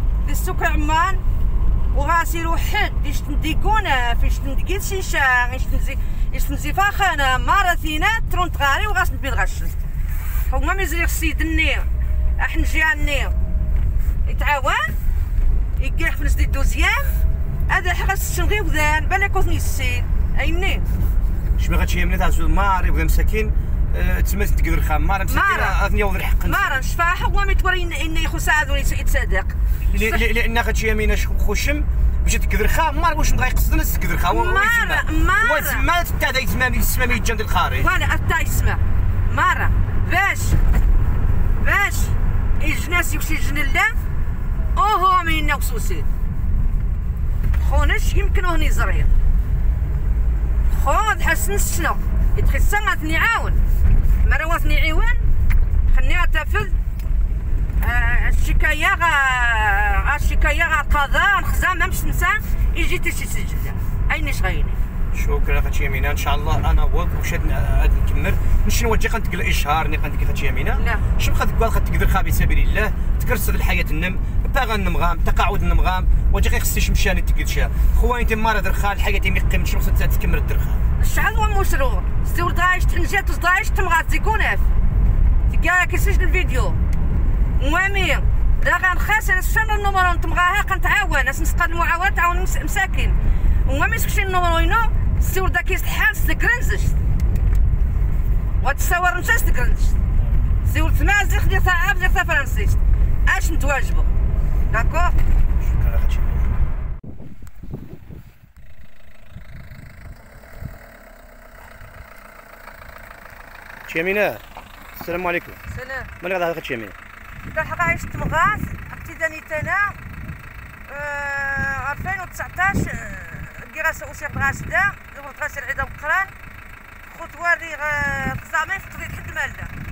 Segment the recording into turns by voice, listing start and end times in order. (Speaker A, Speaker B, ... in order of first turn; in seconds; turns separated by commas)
Speaker A: 0.2-1.2, Speaker A: 1.9-9.8, Speaker A: 10.5-13.3, Speaker A: 14.2-14.9, Speaker A: 15.8-20.9, Speaker B: 21.6-26.8, Speaker A: 25.3-25.8, Speaker A: 26.4-30.2, Speaker B: 29.9-37.9, Speaker A: 34.2-35.9, Speaker A: 37.8-40.6, Speaker A: 41.6-44.0, Speaker A: 44.7-46.1, Speaker A: 47.5-49.1, Speaker A: 50.7-53.6, Speaker A: 54.2-55.3, Speaker A: 55.9-56.8, Speaker A: 57.8-64.8, Speaker B: 65.1-80.8, Speaker A: 70.7-71.0, Speaker A: 81.0-84.7, Speaker A: 85.5-86.8, Speaker A: 87.6-97.0, Speaker A: 98.6-100.0, Speaker A: 100.6-104.1, Speaker A: 104.7-105.2, Speaker B: 105.6-106.5, Speaker B: 113.8-115.6, Speaker A: 115.7-116.1, Speaker B: 116.2-117.0, Speaker A: 117.5-120.0, Speaker A: 120.8-126.3, Speaker A: 127.1-129.7